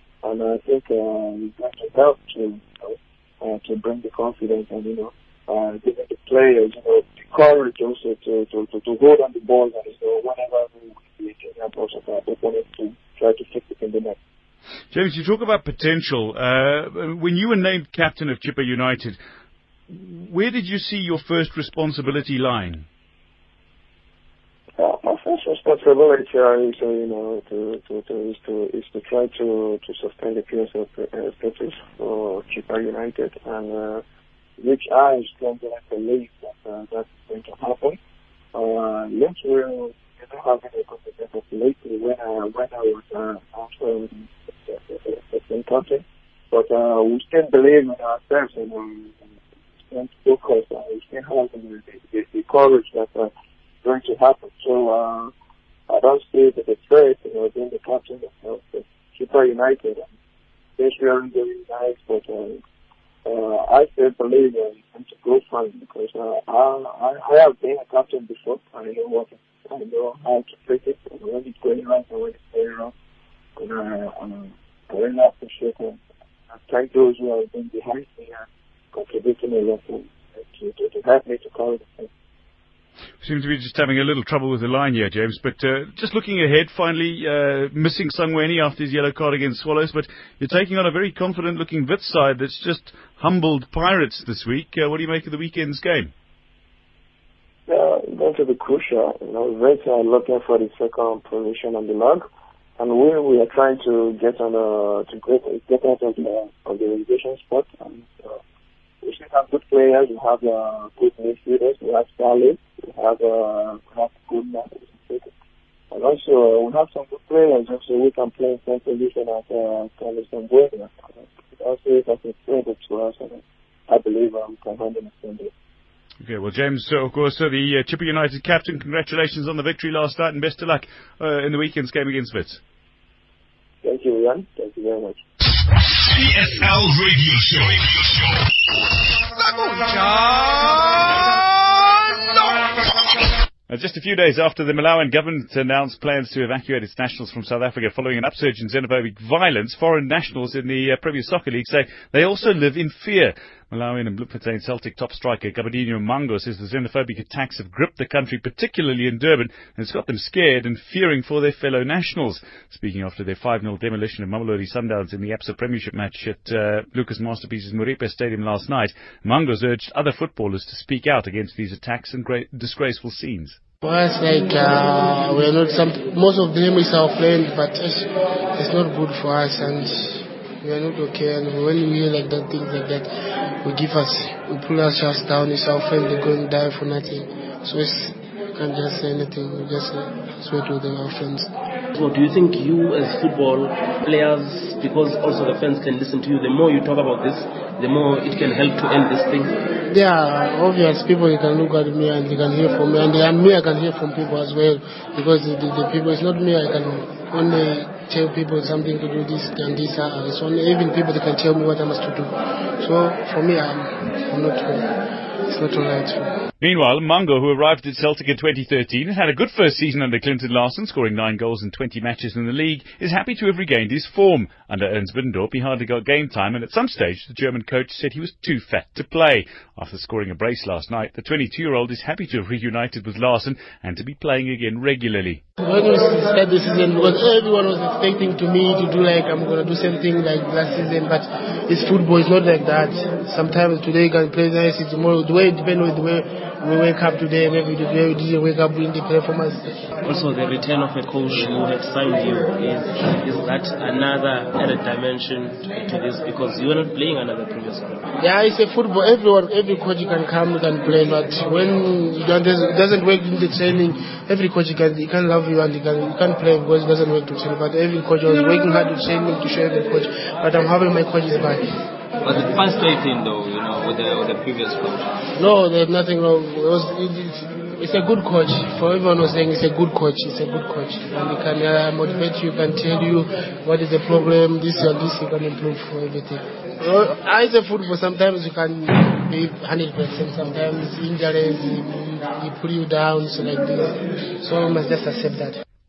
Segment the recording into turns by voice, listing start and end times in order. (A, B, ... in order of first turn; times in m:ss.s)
0:00.2-0:14.2 A
0:14.9-0:19.2 B
0:19.9-0:22.8 B
0:24.8-0:34.0 A
0:34.6-0:38.0 A
0:38.5-0:49.3 A
0:49.9-0:53.3 A
0:53.8-0:55.3 A
0:55.9-1:00.1 A
1:00.8-1:02.6 A
1:03.2-1:12.9 A
1:13.6-1:16.0 A
1:16.5-1:22.1 A
1:23.2-1:36.1 B
1:37.7-1:42.2 A
1:42.8-1:48.4 A
1:49.0-1:55.3 A
1:55.9-2:00.9 A
2:01.5-2:05.5 A
2:06.2-2:12.6 B
2:13.8-2:15.2 A
2:16.1-2:17.8 B
2:23.7-2:53.6 B
2:53.8-3:03.1 C
3:03.6-3:11.5 C
3:12.0-3:19.6 D
3:19.9-3:34.9 C
3:35.5-3:36.3 C
3:36.6-3:55.4 B
3:55.6-4:09.7 C
4:10.0-4:18.0 D
4:18.2-4:31.7 C
4:32.2-4:35.0 E
4:35.4-4:55.6 C